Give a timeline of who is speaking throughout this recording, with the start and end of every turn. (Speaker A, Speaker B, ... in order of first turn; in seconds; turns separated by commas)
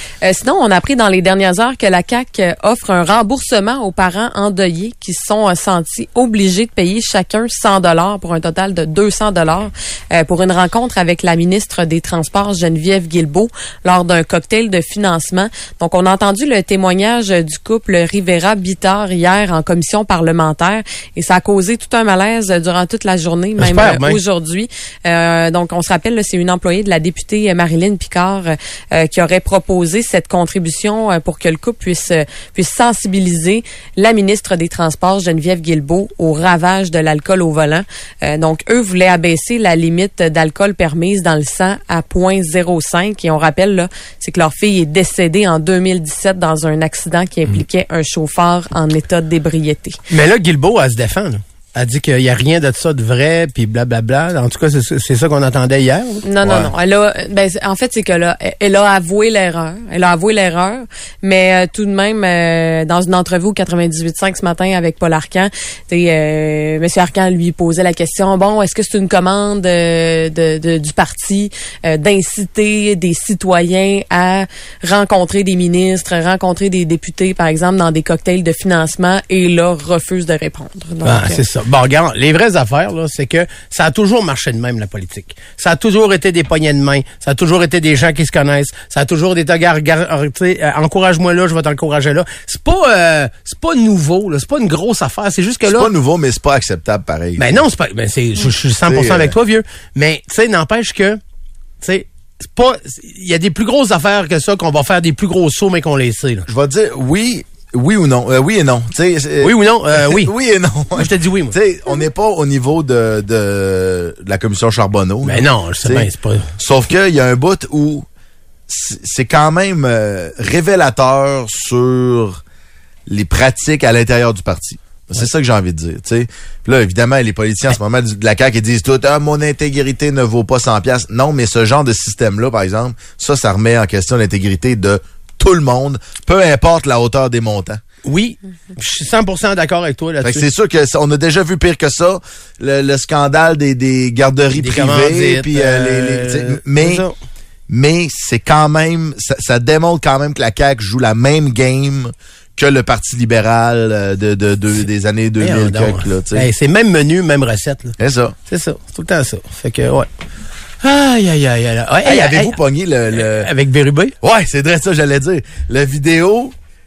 Speaker A: 0.2-50.0, Speaker B: 23.6-24.2, Speaker B: 50.1-56.2, Speaker A: 56.2-81.4, Speaker C: 56.4-56.7, Speaker B: 81.0-95.9, Speaker C: 95.7-97.6, Speaker B: 97.4-101.2, Speaker C: 98.9-99.4, Speaker B: 101.8-106.5, Speaker C: 106.5-118.1, Speaker B: 109.4-110.3, Speaker B: 111.0-111.6, Speaker B: 115.2-116.5, Speaker C: 118.7-122.4, Speaker C: 123.1-137.8, Speaker B: 138.1-140.5, Speaker C: 140.2-147.1, Speaker B: 144.6-147.2, Speaker C: 147.7-156.5, Speaker B: 155.4-158.0, Speaker C: 158.0-158.4, Speaker B: 158.5-160.1, Speaker B: 160.8-162.6, Speaker C: 162.0-163.5, Speaker B: 163.1-164.2, Speaker C: 164.2-166.5